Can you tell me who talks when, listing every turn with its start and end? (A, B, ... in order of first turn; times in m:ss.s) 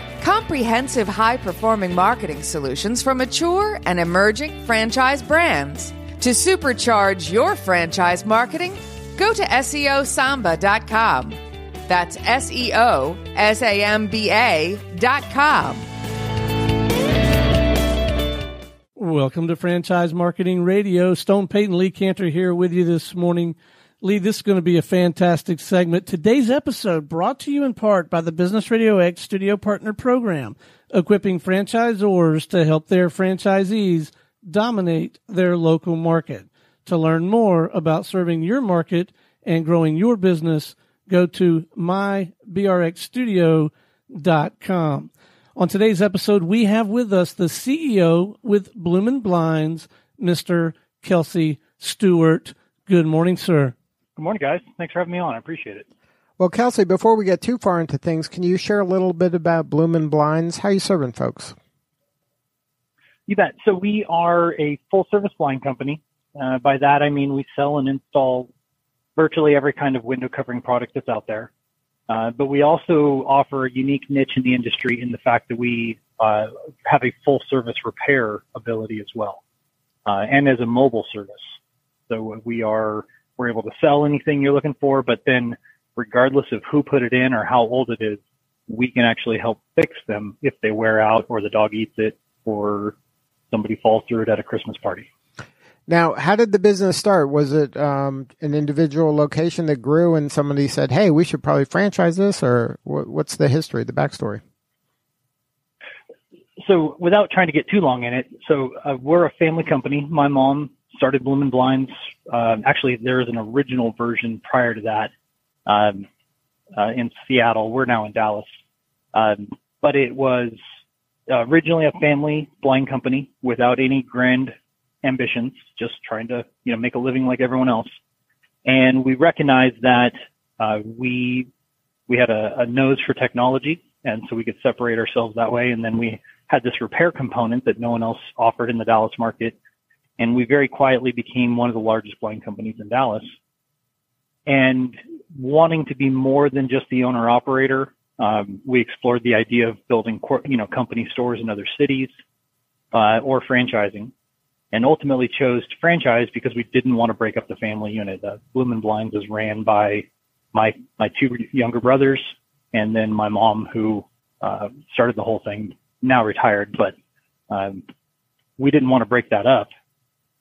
0:00.2-0:15.8 A
0:19.0-0:53.7 B
0:54.2-0:55.9 C
0:56.4-1:01.6 D
1:03.3-1:08.5 C
1:09.2-1:11.5 C
1:12.1-1:19.4 C
1:20.1-1:21.6 C
1:22.1-1:33.0 C
1:33.5-1:35.1 C
1:35.9-1:44.4 D
1:46.6-1:55.1 C
1:55.7-1:56.1 C
1:56.8-1:58.6 C
1:59.1-2:00.6 C
2:01.3-2:07.9 C
2:08.6-2:11.5 C
2:12.1-2:19.6 C
2:20.2-2:23.3 C
2:24.5-2:32.1 C
2:32.9-2:34.1 C
2:34.7-2:46.9 C
2:47.5-2:47.8 C
2:48.6-2:49.7 C